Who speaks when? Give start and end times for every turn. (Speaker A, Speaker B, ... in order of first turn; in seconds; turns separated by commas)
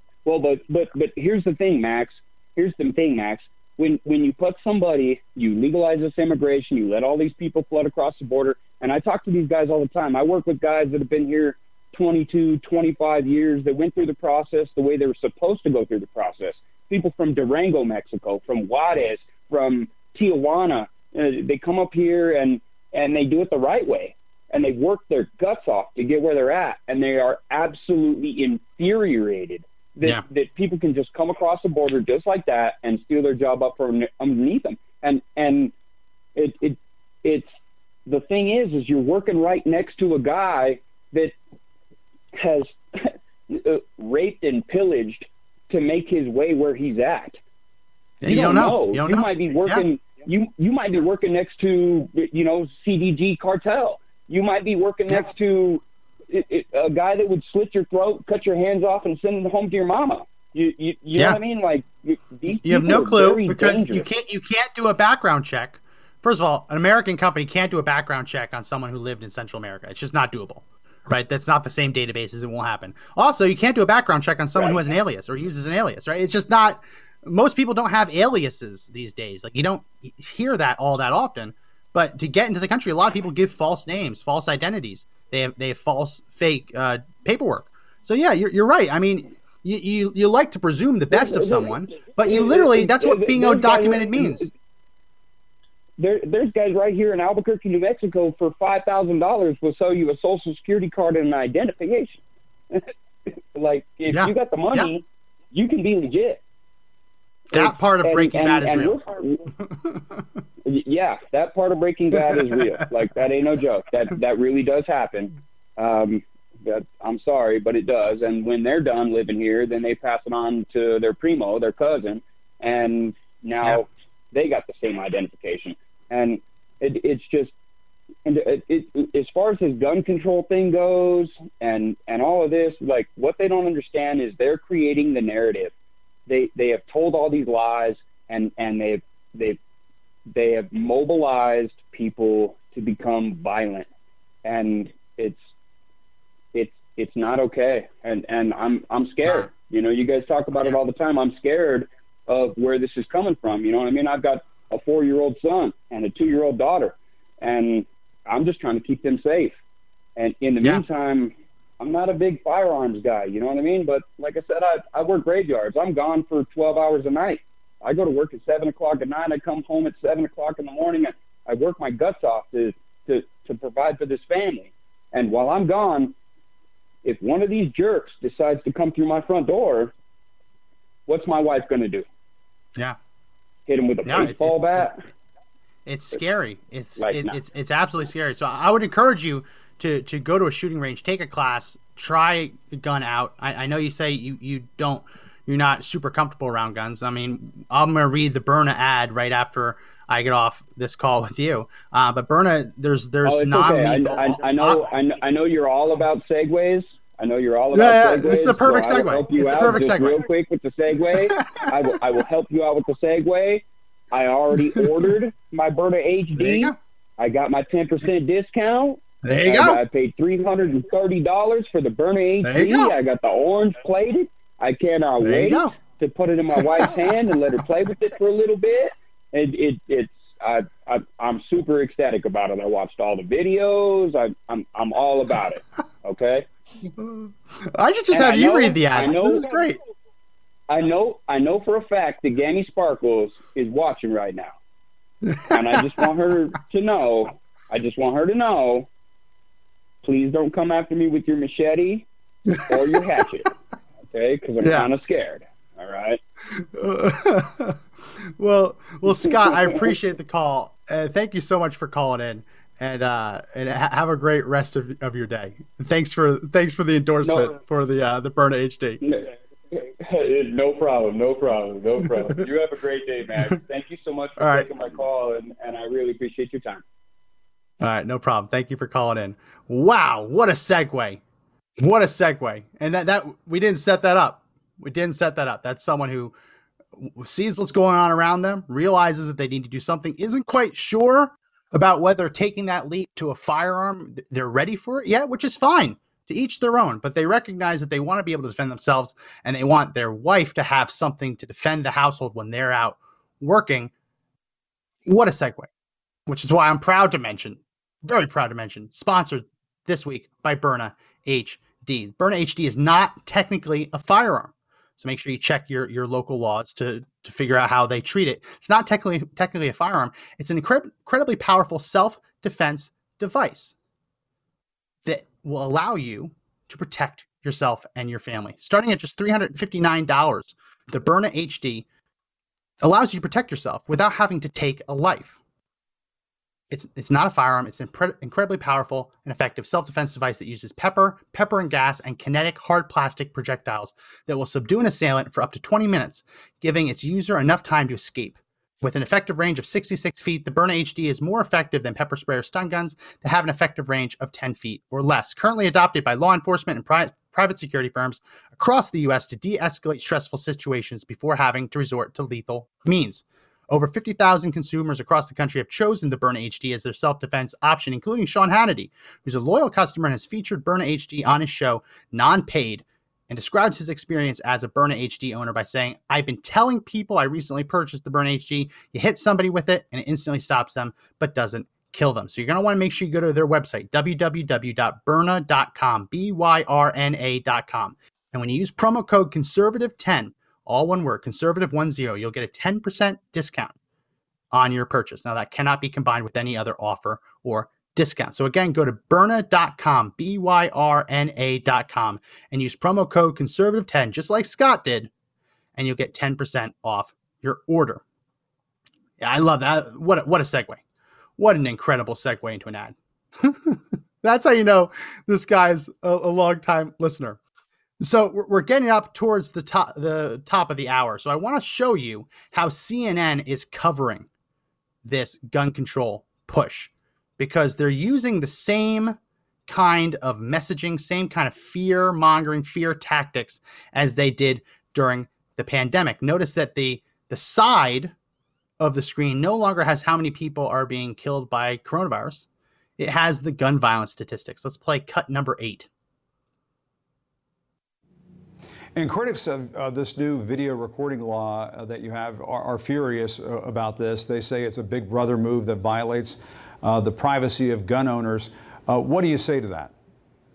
Speaker A: 0.2-35.7, Speaker A: 36.4-37.5, Speaker A: 38.1-41.3, Speaker A: 42.3-47.4, Speaker B: 48.2-49.9, Speaker A: 48.3-64.1, Speaker B: 61.1-61.4, Speaker B: 62.5-94.5, Speaker A: 74.5-74.9, Speaker A: 91.1-94.5, Speaker A: 96.0-102.9, Speaker A: 103.5-106.4, Speaker B: 104.1-104.9, Speaker B: 107.5-109.0, Speaker A: 107.5-109.5, Speaker A: 110.7-127.5, Speaker B: 112.2-112.7, Speaker A: 128.3-135.7, Speaker A: 136.3-139.6, Speaker A: 140.3-143.9, Speaker A: 144.4-145.4, Speaker A: 146.5-159.6, Speaker B: 149.2-149.5, Speaker A: 160.2-176.2, Speaker A: 177.0-179.9, Speaker A: 181.1-182.1, Speaker A: 183.7-185.0, Speaker B: 184.1-184.9, Speaker B: 185.9-204.9, Speaker A: 187.0-187.4, Speaker A: 203.2-236.5, Speaker B: 207.7-210.2, Speaker B: 211.1-211.7, Speaker B: 216.4-216.8, Speaker B: 219.2-219.8, Speaker B: 222.4-222.9, Speaker B: 225.2-225.7, Speaker B: 236.8-239.8, Speaker A: 238.1-239.7, Speaker A: 240.7-244.5, Speaker B: 245.2-245.8, Speaker A: 245.5-248.9, Speaker A: 250.0-252.1, Speaker B: 252.5-253.0, Speaker A: 252.7-253.5, Speaker A: 254.1-256.2, Speaker B: 254.6-254.9, Speaker B: 256.5-269.0, Speaker A: 259.1-259.9, Speaker A: 267.2-267.6, Speaker A: 269.0-276.8, Speaker B: 274.4-274.7, Speaker B: 277.8-281.2, Speaker B: 281.8-286.4, Speaker B: 287.0-303.9, Speaker B: 305.1-305.7, Speaker B: 306.3-323.8, Speaker B: 325.1-331.9, Speaker B: 332.8-335.4, Speaker B: 336.7-393.8, Speaker B: 394.5-405.1, Speaker B: 405.8-408.0, Speaker B: 409.2-410.8, Speaker B: 411.4-417.4, Speaker B: 418.0-424.3, Speaker B: 425.0-438.1, Speaker B: 438.8-445.9, Speaker C: 449.0-459.9